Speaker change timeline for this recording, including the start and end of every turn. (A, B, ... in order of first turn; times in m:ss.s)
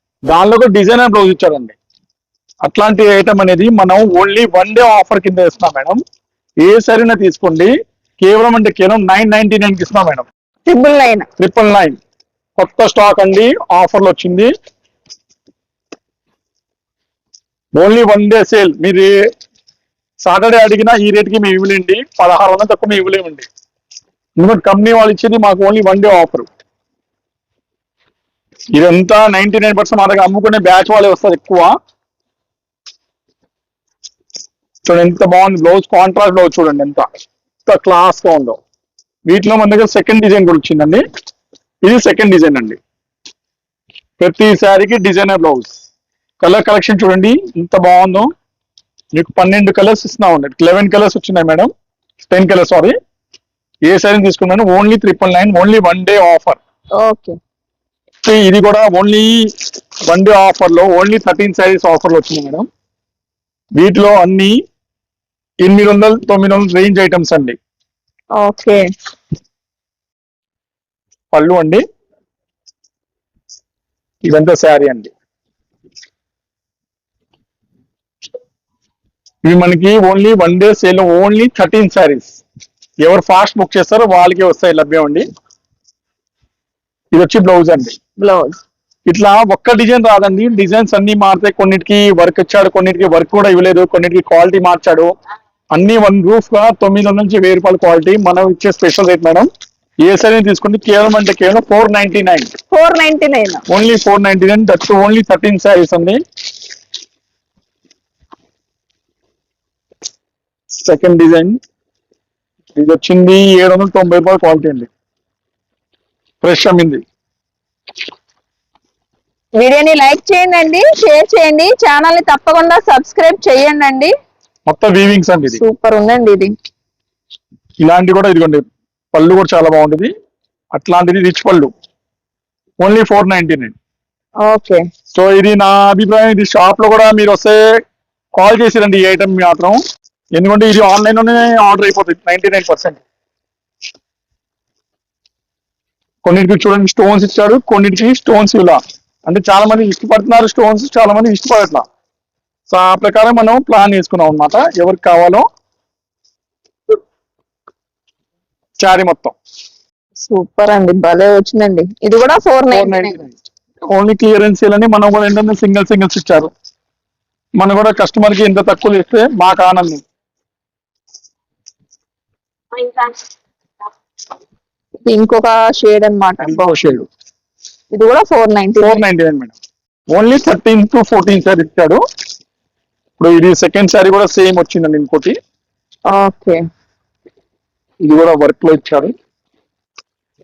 0:00.3-0:01.7 A
0:02.6-0:06.0 A
0:06.6-0:10.2 A
0:10.6-0:11.2 B
0:11.4-0:12.0 A
0:12.6-0:14.5 A
0:17.7-0:19.1 A
0:20.2-0:23.4 A
0:24.4-0:26.5 A
0:28.7-0:31.7 A
0:34.8-0:37.0 A
0:37.6-0:38.6 A
0:39.3-0:41.0 A
0:41.8-0:42.8 A
0:44.2-0:45.7 A
0:46.4-0:48.3 A
0:49.1-0:51.7 A
0:52.3-0:52.9 A
0:53.8-0:56.6 A
0:57.0-0:57.3 B
0:58.2-1:02.6 A
1:03.7-1:04.5 A
1:05.6-1:07.6 A
1:08.4-1:08.8 B
1:11.3-1:11.8 A
1:14.2-1:15.1 A
1:19.4-1:22.4 A
1:23.0-1:25.2 A
1:27.1-1:27.9 A
1:28.2-1:28.6 B
1:29.1-1:35.1 A
1:35.7-1:39.5 A
1:40.0-1:42.5 A
1:42.7-1:43.6 B
1:43.7-1:46.2 A
1:50.7-1:51.6 A
1:52.7-1:54.9 A
1:56.4-1:57.0 A
1:59.6-2:04.1 B
2:04.7-2:05.6 A
2:05.5-2:06.5 B
2:07.8-2:10.1 A
2:10.7-2:11.7 A
2:12.8-2:13.7 A
2:14.4-2:14.8 B
2:15.1-2:17.6 A
2:18.3-2:19.8 A
2:20.3-2:23.0 A
2:26.2-2:31.8 A
2:32.7-2:35.4 A
2:38.8-2:39.3 A
2:40.2-2:43.2 B
2:42.7-2:43.3 A
2:43.9-2:46.5 A
2:47.6-2:50.0 A
2:52.8-2:53.1 B
2:55.0-2:56.8 B
2:56.4-2:57.1 A
2:57.9-2:59.0 B
2:58.8-2:59.5 A
3:00.1-3:02.0 A
3:03.2-3:05.3 A
3:06.1-3:06.6 B
3:08.0-3:09.1 A